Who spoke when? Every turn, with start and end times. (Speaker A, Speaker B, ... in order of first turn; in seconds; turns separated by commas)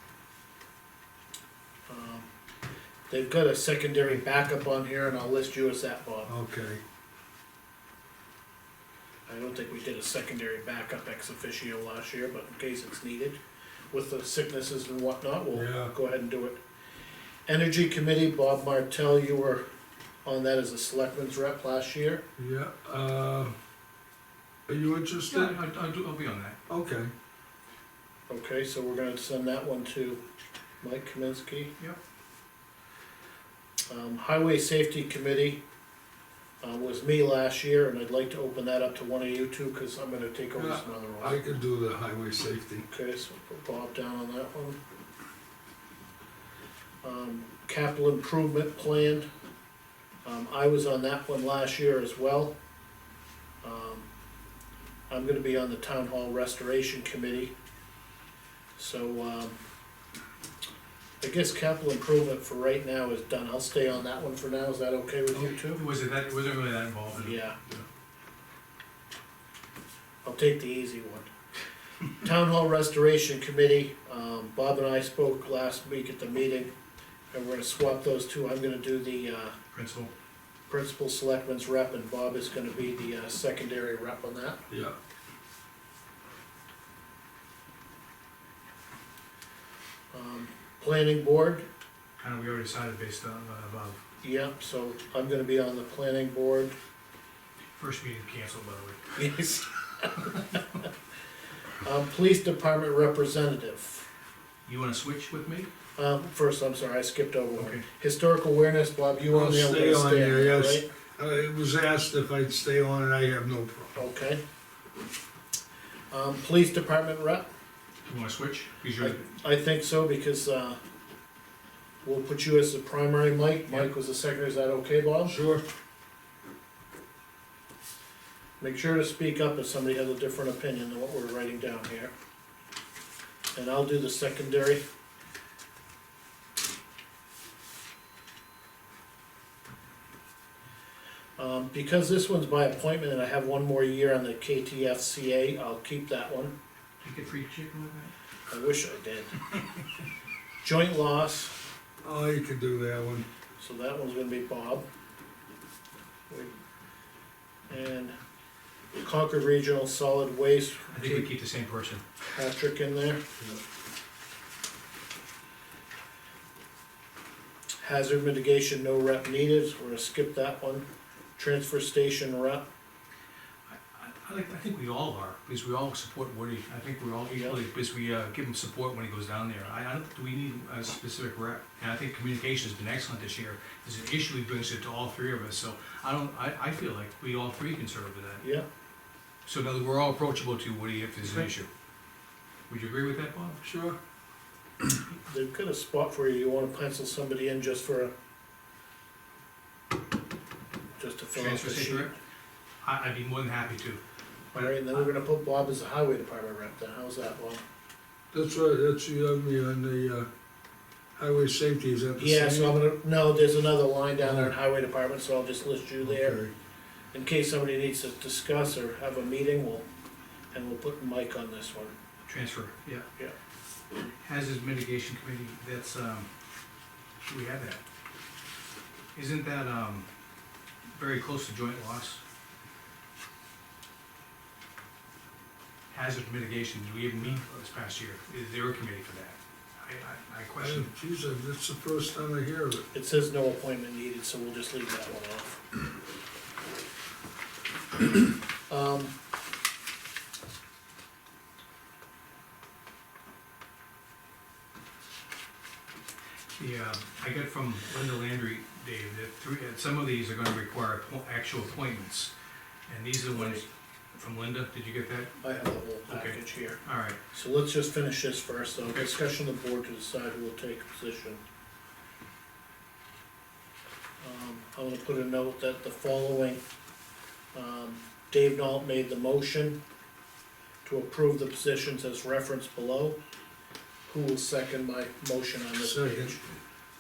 Speaker A: 1.9-2.3, Speaker A: 3.1-6.3, Speaker B: 6.2-6.8, Speaker A: 9.3-13.4, Speaker A: 13.9-16.6, Speaker B: 15.6-15.9, Speaker A: 17.5-19.6, Speaker A: 20.2-22.2, Speaker B: 22.4-23.6, Speaker B: 24.7-25.6, Speaker C: 25.3-26.6, Speaker B: 26.7-27.1, Speaker A: 28.3-30.2, Speaker A: 30.8-31.7, Speaker A: 33.9-35.6, Speaker A: 36.6-41.4, Speaker B: 40.6-42.9, Speaker A: 42.9-44.8, Speaker A: 47.0-49.3, Speaker A: 50.2-52.5, Speaker A: 53.6-54.1, Speaker A: 55.1-57.5, Speaker A: 58.8-59.6, Speaker A: 61.2-65.8, Speaker C: 65.7-67.4, Speaker A: 67.1-67.6, Speaker A: 70.2-71.3, Speaker A: 72.2-76.7, Speaker A: 77.3-79.5, Speaker C: 79.7-80.1, Speaker A: 80.7-84.6, Speaker B: 84.7-85.0, Speaker A: 90.1-91.7, Speaker C: 92.2-94.0, Speaker A: 94.2-96.8, Speaker C: 97.8-99.2, Speaker A: 99.2-100.1, Speaker C: 100.2-100.6, Speaker A: 101.8-104.0, Speaker C: 104.7-105.7, Speaker A: 106.0-110.9, Speaker C: 107.6-107.8, Speaker B: 109.3-114.0, Speaker A: 114.0-114.4, Speaker A: 116.1-117.5, Speaker C: 118.1-119.3, Speaker A: 119.0-120.8, Speaker A: 122.0-125.3, Speaker B: 125.2-125.6, Speaker A: 128.6-132.1, Speaker A: 133.6-134.8, Speaker A: 141.4-146.5, Speaker C: 147.0-148.1, Speaker A: 148.5-149.3, Speaker A: 150.6-151.5, Speaker B: 152.0-153.3, Speaker A: 153.6-154.8, Speaker A: 157.7-158.2, Speaker A: 159.0-161.2, Speaker C: 160.9-162.1, Speaker A: 162.3-163.2, Speaker A: 167.8-170.8, Speaker A: 171.4-172.7, Speaker C: 173.7-188.4, Speaker A: 177.3-177.6, Speaker C: 189.5-191.7, Speaker C: 192.7-193.6, Speaker B: 193.6-194.0, Speaker A: 195.1-198.1, Speaker A: 201.0-202.1, Speaker C: 201.3-202.1, Speaker C: 202.8-204.0, Speaker A: 204.5-207.6, Speaker B: 208.3-210.3, Speaker B: 211.2-212.8, Speaker A: 212.2-216.4, Speaker B: 214.2-214.5, Speaker B: 216.0-216.5, Speaker A: 217.1-219.8, Speaker A: 220.5-221.9, Speaker C: 222.3-223.1, Speaker C: 224.2-226.3, Speaker C: 227.2-227.8, Speaker C: 229.2-230.1, Speaker C: 230.9-232.2, Speaker C: 235.9-240.9, Speaker B: 240.6-242.9, Speaker A: 242.9-245.6, Speaker A: 248.7-249.1, Speaker C: 256.6-262.3, Speaker C: 262.9-265.3, Speaker A: 263.3-263.6, Speaker A: 265.4-266.8, Speaker C: 266.1-267.2, Speaker A: 267.3-271.4, Speaker A: 274.2-276.6, Speaker A: 277.5-279.8, Speaker A: 280.8-283.2, Speaker A: 284.1-286.4, Speaker B: 285.8-286.4